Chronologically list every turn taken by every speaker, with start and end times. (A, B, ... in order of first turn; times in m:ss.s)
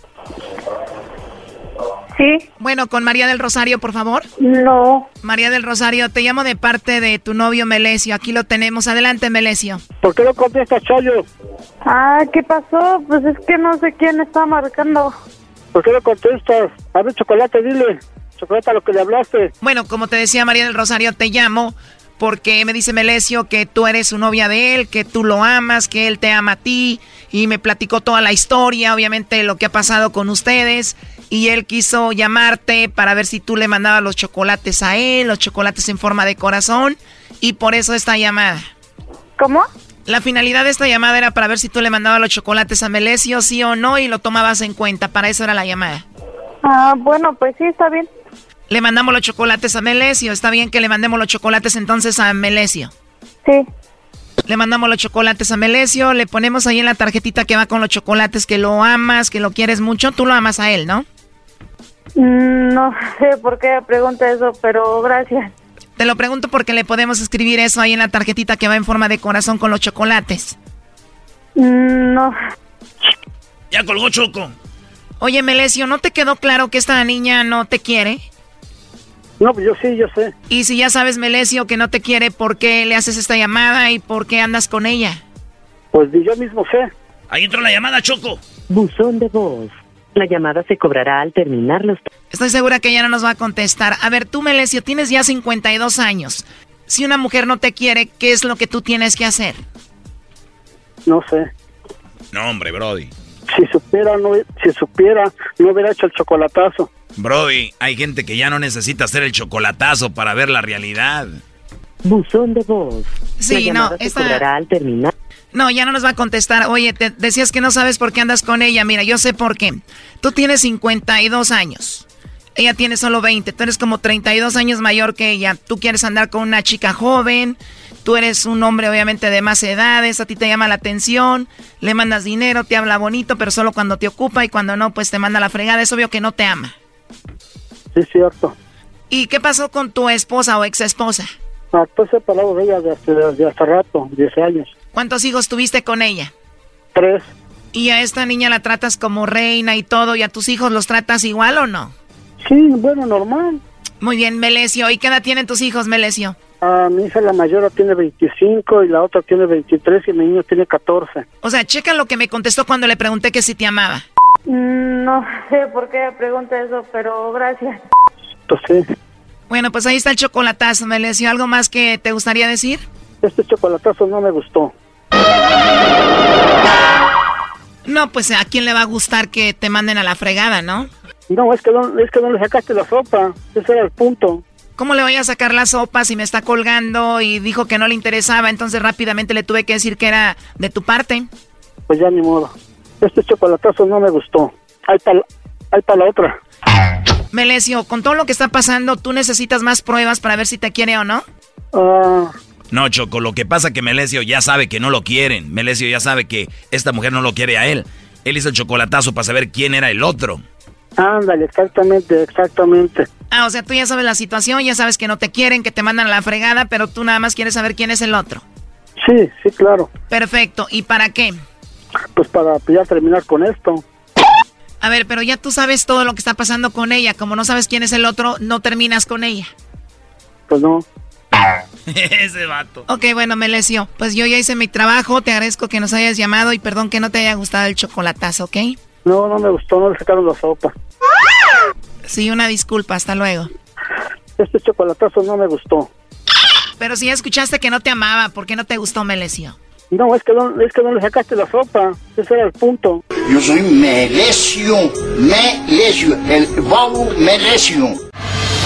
0:02.2-0:02.4 A
0:02.6-0:04.2 B
0:04.4-0:05.1 A
0:05.2-0:09.8 B
0:10.0-0:11.2 C
0:11.8-0:15.1 A
0:15.7-0:19.5 C
0:19.6-0:38.6 B
0:39.4-0:39.6 A
0:40.1-0:46.0 B
0:46.6-0:48.1 A
0:48.7-0:52.9 B
0:54.5-1:01.0 B
1:02.2-1:05.5 A
1:06.0-1:10.6 B
1:11.6-1:12.3 A
1:13.7-1:14.5 D
1:15.2-1:18.2 B
1:19.4-1:20.3 C
1:20.5-1:25.2 B
1:25.9-1:26.9 C
1:27.3-1:28.4 D
1:28.7-1:32.1 E
1:32.3-1:39.6 B
1:41.1-1:41.5 C
1:42.3-1:43.1 D
1:43.5-1:46.9 C
1:47.2-1:51.4 D
1:52.0-1:55.1 E
1:53.4-1:54.4 B
1:55.5-2:16.8 B
2:18.0-2:18.6 C
2:19.1-2:21.3 B
2:21.7-2:24.7 C
2:24.9-2:26.3 B
2:26.9-2:27.3 C
2:27.7-2:31.9 B
2:32.4-2:33.6 C
2:34.0-2:36.4 B
2:36.6-2:41.2 C
2:41.4-2:44.0 B
2:44.5-2:47.8 A
2:48.5-2:48.8 C
2:49.5-2:52.8 B
2:53.2-2:54.7 C
2:57.8-3:00.9 B
3:01.3-3:04.4 C
3:04.8-3:11.3 B
3:11.9-3:16.4 C
3:17.3-3:21.2 B
3:21.7-3:22.3 C
3:22.7-3:30.4 D
3:31.0-3:33.1 C
3:33.3-3:38.4 B
3:39.0-3:39.9 C
3:40.1-3:41.4 B
3:42.2-3:43.8 C
3:44.8-3:49.5 B
3:50.5-3:50.8 C
3:51.9-3:52.8 D
3:52.9-3:58.8 B
3:59.0-4:00.7 C
4:02.0-4:03.5 B
4:04.4-4:05.9 C
4:06.8-4:09.6 B
4:09.9-4:13.0 C
4:13.2-4:18.0 F